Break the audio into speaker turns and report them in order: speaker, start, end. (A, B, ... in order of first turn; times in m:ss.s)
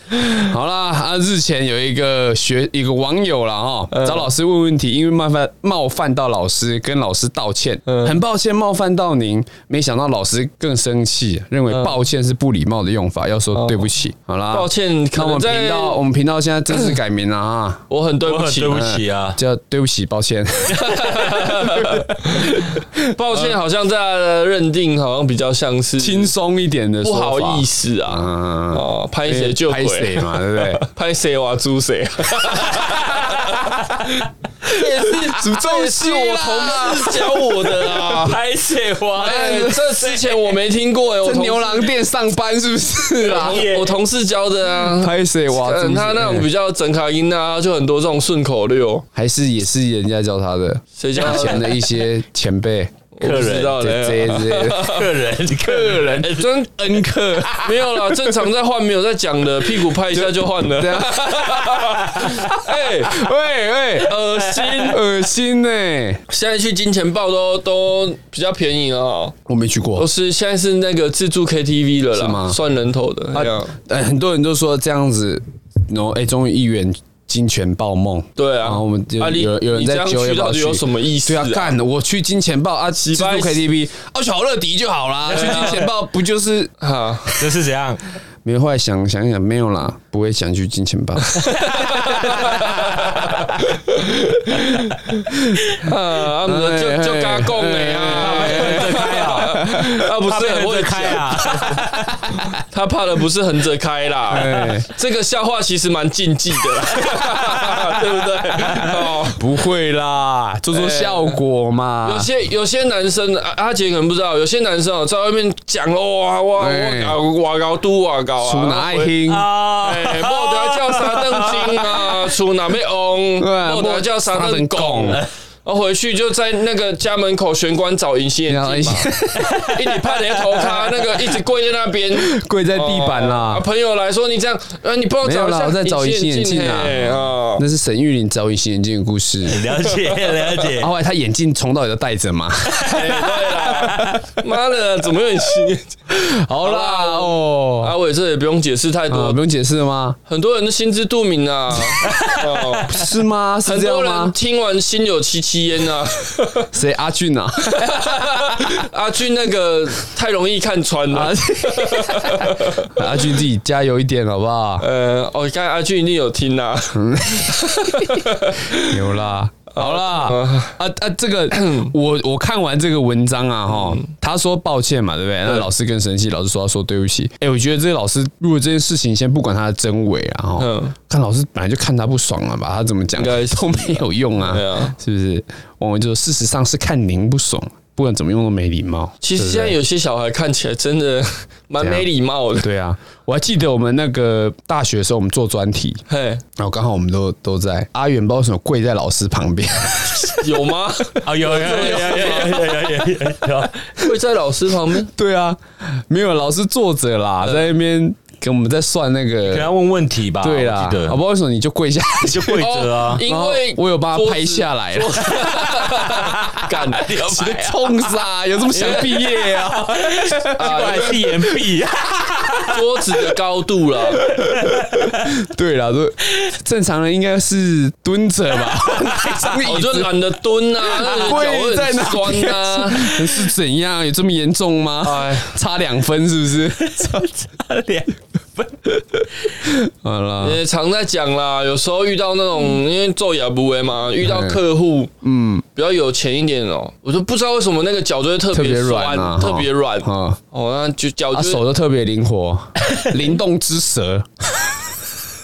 0:00.2-0:17.9 A
0:03.9-0:04.3 B
0:07.9-0:08.2 B
0:11.7-0:12.0 B
0:13.5-0:13.9 B
0:14.5-0:16.0 B
0:17.9-0:18.8 B
0:18.2-0:19.4 C
0:18.7-0:23.6 A
0:20.7-0:26.3 B
0:26.0-0:30.8 A
0:27.0-0:38.4 B
0:32.7-0:34.2 C
0:34.7-0:38.1 A
0:38.1-0:40.6 C
0:39.2-0:41.9 B
0:39.2-0:39.9 A
0:41.2-0:43.6 A
0:43.2-0:49.0 B
0:43.3-0:44.0 C
0:44.8-0:46.5 A
0:49.1-0:53.0 A
0:51.0-0:52.0 B
0:53.1-0:55.1 B
0:53.2-0:53.8 C
0:53.8-0:55.0 A
0:54.7-0:56.5 C
0:55.6-0:58.3 A
0:56.3-0:56.7 B
0:57.5-1:03.3 B
1:00.1-1:04.1 A
1:04.0-1:05.0 B
1:04.8-1:06.2 A
1:06.3-1:09.4 B
1:09.5-1:10.1 A
1:10.0-1:13.7 B
1:12.1-1:12.6 A
1:13.3-1:26.7 A
1:18.4-1:21.8 B
1:23.0-1:23.6 B
1:25.3-1:25.8 C
1:25.3-1:25.8 B
1:26.8-1:27.3 B
1:27.4-1:28.0 C
1:28.4-1:33.2 A
1:31.3-1:41.8 B
1:32.1-1:33.4 C
1:35.3-1:35.9 A
1:36.4-1:40.1 A
1:38.1-1:42.4 C
1:42.2-1:42.5 A
1:42.7-1:49.4 B
1:44.3-1:44.9 A
1:48.6-1:48.9 C
1:48.8-1:52.3 A
1:50.7-1:51.4 B
1:52.0-1:59.1 B
1:56.6-1:57.2 A
1:58.4-1:59.4 A
1:59.3-2:02.3 C
1:59.8-2:09.1 B
2:03.4-2:05.2 A
2:08.5-2:10.1 A
2:09.6-2:17.6 B
2:10.8-2:11.0 A
2:12.1-2:13.6 A
2:15.2-2:19.6 A
2:19.4-2:20.9 C
2:19.9-2:20.3 B
2:20.8-2:24.3 A
2:22.8-2:25.9 B
2:26.1-2:27.9 A
2:26.6-2:29.4 B
2:29.1-2:30.2 A
2:30.3-2:33.0 B
2:32.0-2:32.8 C
2:32.8-2:34.4 A
2:33.6-2:36.7 B
2:36.7-2:38.8 A
2:37.7-2:42.9 B
2:41.1-2:44.9 A
2:44.8-2:49.0 B
2:46.9-3:09.8 A
2:49.8-2:50.8 B
2:51.5-2:51.9 B
2:53.7-2:54.0 B
3:00.6-3:01.0 B
3:03.2-3:05.0 B
3:09.2-3:12.7 B
3:11.8-3:16.0 A
3:16.1-3:16.4 B
3:16.6-3:20.5 A
3:20.3-3:22.9 B
3:21.2-3:23.9 C
3:21.7-3:22.6 A
3:24.0-3:25.1 B
3:25.1-3:29.7 A
3:27.4-3:27.7 B
3:29.4-3:31.2 C
3:30.4-3:32.6 A
3:32.2-3:33.2 C
3:32.6-3:37.7 B
3:33.2-3:41.3 A
3:37.0-3:37.6 C
3:38.7-3:39.4 B
3:40.1-3:42.9 C
3:40.6-3:41.2 B
3:42.7-3:44.3 B
3:44.3-3:50.2 A
3:44.3-3:45.3 C
3:49.0-3:49.4 C
3:49.6-3:53.4 B
3:50.8-3:57.3 A
3:55.0-3:55.6 B
3:56.8-3:58.9 C
3:59.6-4:00.6 A
4:00.4-4:05.1 B
4:04.2-4:04.6 A
4:05.2-4:05.6 A
4:05.8-4:11.6 B
4:08.5-4:10.4 A
4:11.3-4:14.8 A